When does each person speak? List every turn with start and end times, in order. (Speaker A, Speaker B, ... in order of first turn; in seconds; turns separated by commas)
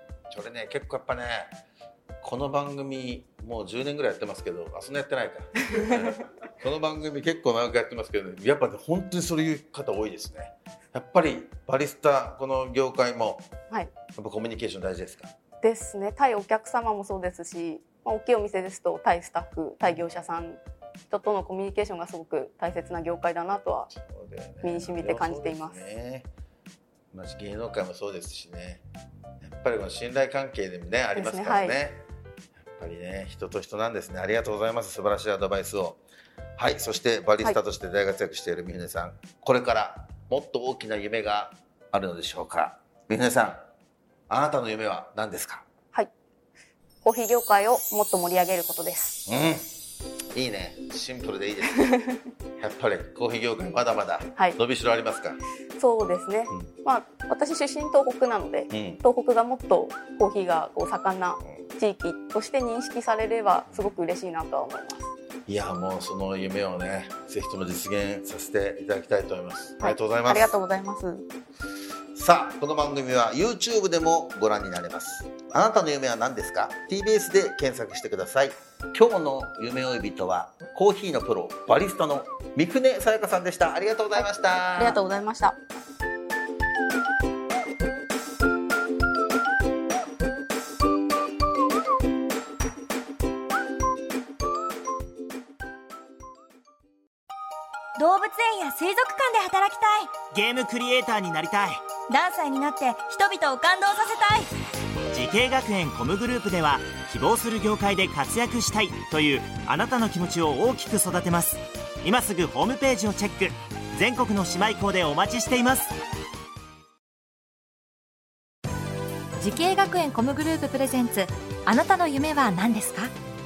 Speaker A: 0.3-1.5, Speaker A: 2.2-13.5, Speaker B: 5.7-6.1, Speaker A: 14.1-15.3, Speaker B: 15.6-23.9, Speaker A: 23.9-26.3, Speaker B: 24.6-25.8, Speaker A: 27.1-28.8, Speaker A: 29.4-32.0, Speaker B: 31.1-31.8, Speaker A: 32.6-36.0, Speaker A: 36.6-43.6, Speaker A: 44.3-45.6, Speaker B: 47.0-49.2, Speaker A: 49.3-49.7, Speaker A: 50.3-51.8, Speaker B: 51.8-52.2, Speaker A: 52.6-55.4, Speaker B: 55.8-65.1, Speaker A: 58.7-59.0, Speaker A: 65.5-70.5, Speaker B: 69.8-71.3, Speaker A: 72.1-85.0, Speaker B: 84.2-85.6, Speaker C: 98.0-100.1, Speaker D: 100.3-101.8, Speaker C: 102.1-104.5, Speaker D: 105.1-115.9, Speaker E: 119.4-123.1